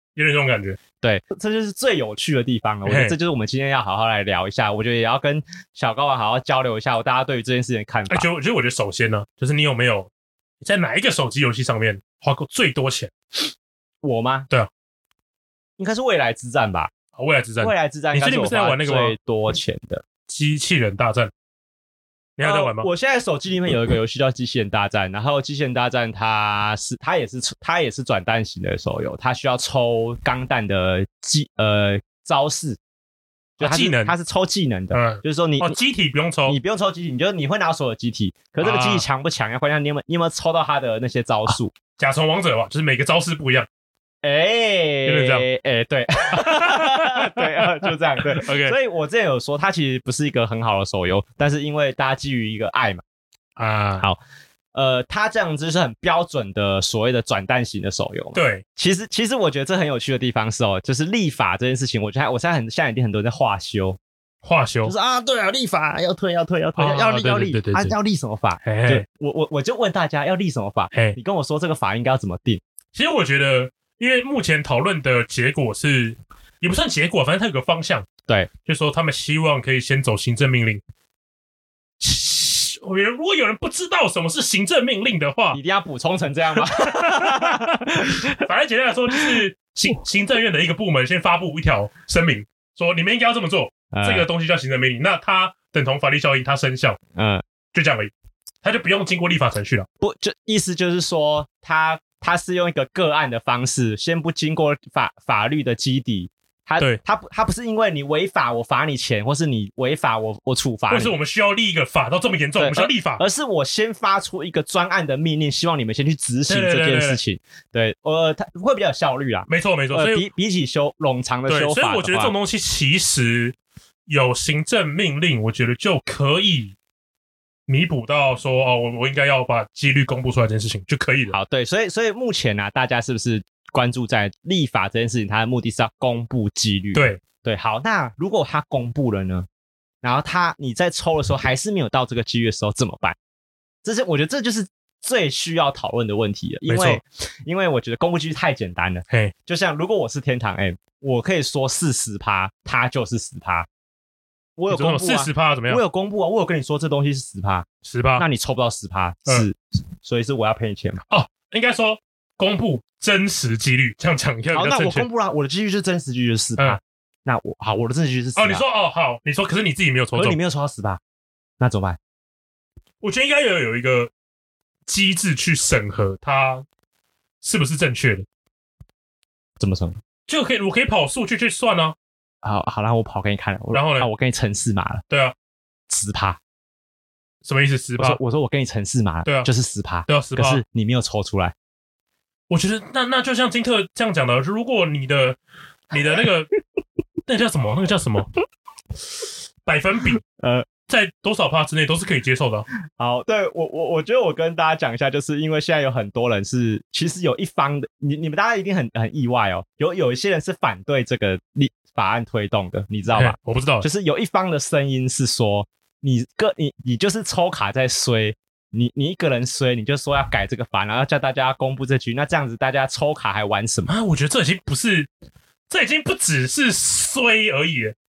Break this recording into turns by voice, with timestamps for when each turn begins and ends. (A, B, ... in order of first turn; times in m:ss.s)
0:00.2-0:00.8 A
0:01.0-0:08.3 B
0:02.8-0:03.1 A
0:08.1-0:10.1 A
0:10.6-0:13.1 A
0:14.0-0:14.5 B
0:15.8-0:16.9 B
0:17.2-0:19.2 A
0:17.6-0:20.0 B
0:20.3-0:21.3 A
0:22.4-0:22.9 A
0:22.4-0:32.8 B
0:33.6-0:35.8 B
0:33.6-0:34.1 A
0:34.9-0:36.6 A
0:36.4-0:41.7 B
0:38.6-0:39.0 A
0:42.0-0:43.7 A
0:44.2-0:53.0 B
0:45.0-0:45.4 A
0:46.3-0:48.8 A
0:53.6-0:54.0 A
0:54.7-1:04.0 B
0:58.3-0:58.6 A
1:04.4-1:04.9 A
1:04.8-1:12.6 B
1:06.8-1:08.0 A
1:08.6-1:09.0 A
1:10.9-1:11.2 A
1:12.9-1:18.1 A
1:18.6-1:20.8 A
1:22.0-1:25.6 A
1:25.5-1:28.4 B
1:26.6-1:37.0 A
1:29.1-1:29.4 B
1:33.9-1:34.3 B
1:37.1-1:37.4 B
1:37.7-1:38.1 A
1:38.6-1:39.9 A
1:40.0-1:51.1 B
1:50.9-1:53.2 A
1:52.6-2:02.3 B
1:56.5-1:57.2 A
1:59.5-2:00.2 A
2:01.5-2:03.5 A
2:04.1-2:06.7 A
2:07.7-2:11.3 A
2:11.3-2:19.5 B
2:16.9-2:17.2 A
2:20.0-2:23.2 B
2:23.8-2:33.7 B
2:26.6-2:27.0 A
2:34.6-2:41.0 B
2:34.7-2:35.8 A
2:37.8-2:38.2 A
2:41.1-2:45.1 A
2:44.5-2:48.6 B
2:48.4-2:50.4 A
2:50.1-2:51.0 B
2:51.6-2:52.0 B
2:53.0-2:54.1 A
2:54.9-2:56.6 A
2:57.4-2:58.2 A
2:59.6-3:00.0 B
3:00.3-3:01.9 A
3:02.4-3:05.0 B
3:03.7-3:04.1 A
3:05.1-3:05.3 A
3:05.9-3:06.4 B
3:07.4-3:08.2 A
3:08.0-3:11.5 B
3:09.2-3:09.5 A
3:10.1-3:10.6 A
3:12.5-3:15.4 A
3:15.9-3:16.5 A
3:17.2-3:18.3 A
3:19.6-3:20.2 A
3:20.4-3:20.7 B
3:20.9-3:22.7 A
3:23.0-3:43.9 B
3:33.1-3:33.9 A
3:43.9-3:45.1 A
3:45.7-3:47.9 A